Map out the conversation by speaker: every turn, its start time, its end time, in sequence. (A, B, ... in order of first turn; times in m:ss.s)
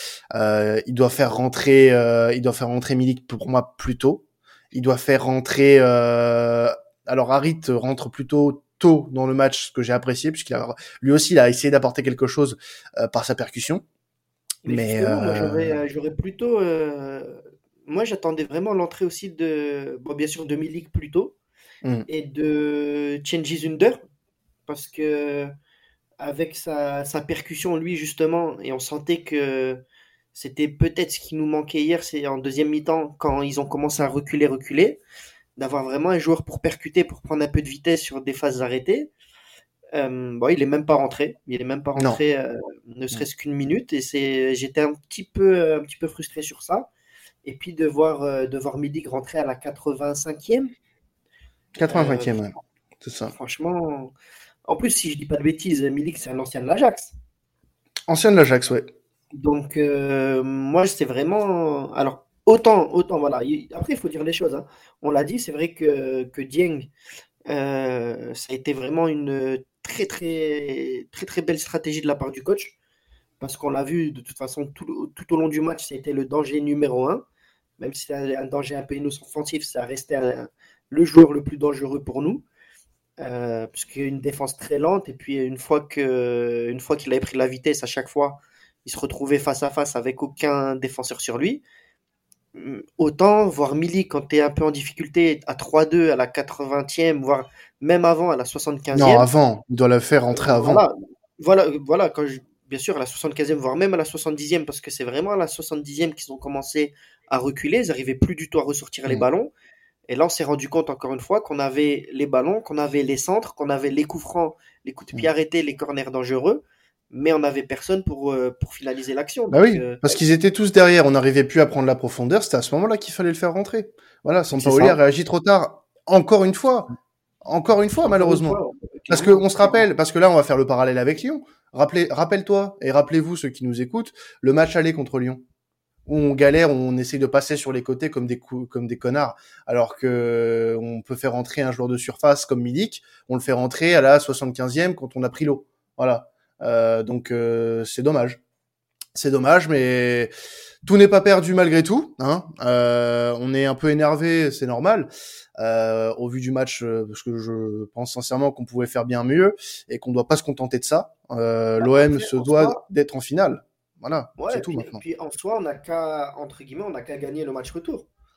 0:00.3-0:13.8 A
0:14.6-0:21.4 B
0:14.7-0:15.8 A
0:22.1-0:24.0 B
0:24.7-0:25.5 B
0:26.2-0:29.8 B
0:30.3-0:35.0 B
0:35.6-0:39.1 B
0:39.9-0:46.9 B
0:47.4-0:50.7 B
0:51.8-0:53.3 A
0:51.9-0:52.5 B
0:53.3-0:54.1 B
0:54.7-0:57.1 B
0:58.1-0:58.9 A
0:59.3-1:06.9 B
1:07.5-1:12.8 B
1:13.4-1:17.2 B
1:17.8-1:22.4 B
1:23.2-1:31.6 B
1:32.6-1:39.3 B
1:38.9-1:40.8 A
1:40.3-1:49.5 B
1:50.1-2:00.1 B
1:59.5-2:06.9 A
2:04.6-2:05.0 B
2:07.4-2:08.6 A
2:08.0-2:09.8 B
2:09.1-2:15.4 A
2:16.1-2:28.4 A
2:29.1-2:30.3 A
2:30.8-2:45.0 A
2:41.8-2:42.8 B
2:44.4-2:48.1 B